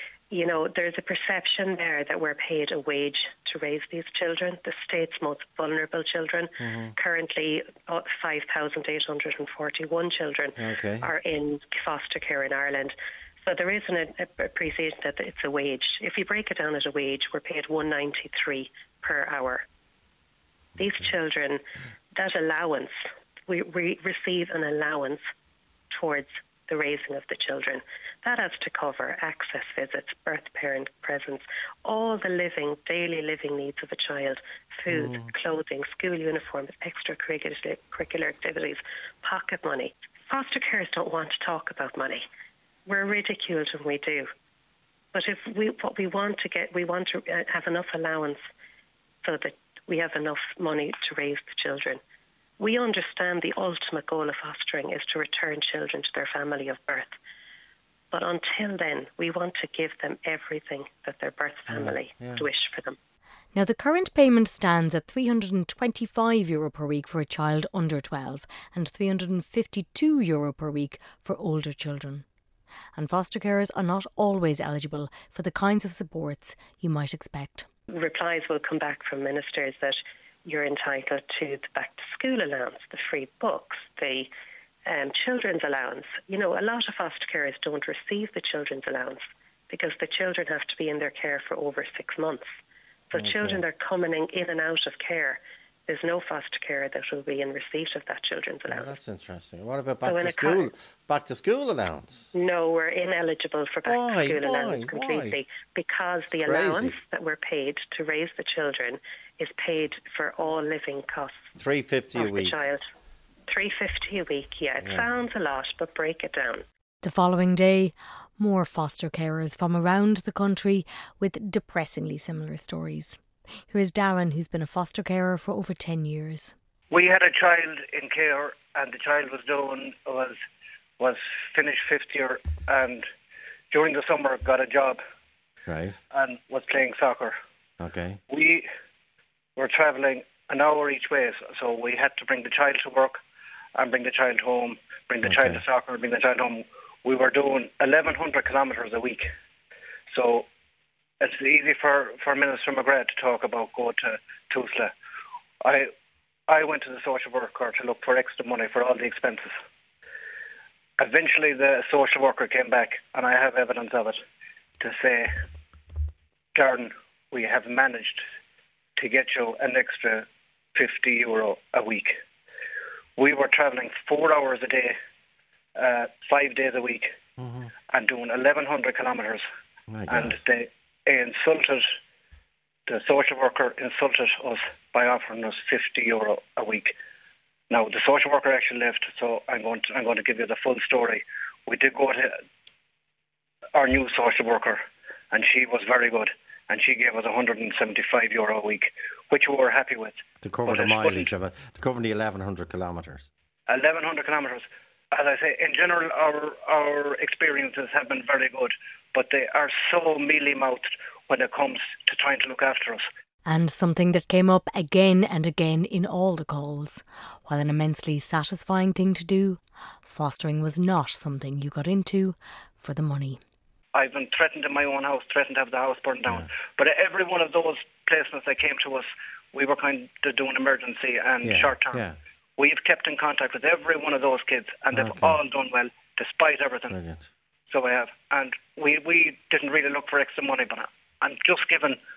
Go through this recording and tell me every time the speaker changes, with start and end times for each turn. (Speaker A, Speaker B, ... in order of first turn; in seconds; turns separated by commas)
Speaker A: 0.3-19.6, Speaker B: 6.6-6.9, Speaker B: 10.6-11.1, Speaker A: 20.8-21.6, Speaker B: 20.8-21.1, Speaker A: 22.1-22.9, Speaker A: 23.5-25.2, Speaker A: 25.9-42.2, Speaker B: 34.9-35.3, Speaker A: 42.9-44.3, Speaker A: 45.1-48.4, Speaker A: 49.2-52.0, Speaker A: 52.6-57.1, Speaker A: 58.1-63.0, Speaker B: 61.7-62.5, Speaker C: 63.5-72.2, Speaker C: 72.9-77.7, Speaker A: 77.9-84.3, Speaker A: 84.9-92.5, Speaker A: 93.1-98.9, Speaker B: 93.1-93.6, Speaker B: 98.7-102.3, Speaker A: 100.0-100.7, Speaker A: 102.3-111.5, Speaker B: 103.8-105.4, Speaker B: 106.3-107.0, Speaker B: 111.5-112.6, Speaker A: 112.1-112.8, Speaker A: 113.5-116.6, Speaker B: 114.8-115.1, Speaker C: 117.0-126.5, Speaker D: 126.9-130.4, Speaker D: 131.0-133.1, Speaker D: 133.7-135.0, Speaker B: 135.7-136.0, Speaker D: 136.1-137.3, Speaker B: 137.8-138.2, Speaker D: 138.3-138.7, Speaker D: 139.6-143.2, Speaker D: 143.8-149.3, Speaker B: 145.2-145.6, Speaker D: 150.1-150.4, Speaker D: 151.2-154.9, Speaker D: 155.6-155.9, Speaker D: 156.5-159.5, Speaker D: 161.0-164.2, Speaker D: 164.8-165.3, Speaker D: 166.6-168.2, Speaker D: 169.0-172.1, Speaker D: 173.2-174.9, Speaker D: 175.8-177.1, Speaker B: 177.4-177.7, Speaker D: 177.9-179.4, Speaker B: 179.9-180.4, Speaker D: 180.1-181.8, Speaker D: 182.9-186.9, Speaker D: 187.7-192.3, Speaker D: 193.7-201.3, Speaker B: 200.4-203.3, Speaker D: 203.7-213.1, Speaker C: 213.4-223.4, Speaker D: 223.9-232.0, Speaker B: 231.4-232.2, Speaker D: 232.6-237.0, Speaker B: 234.9-235.4, Speaker B: 236.9-237.3, Speaker D: 237.7-242.0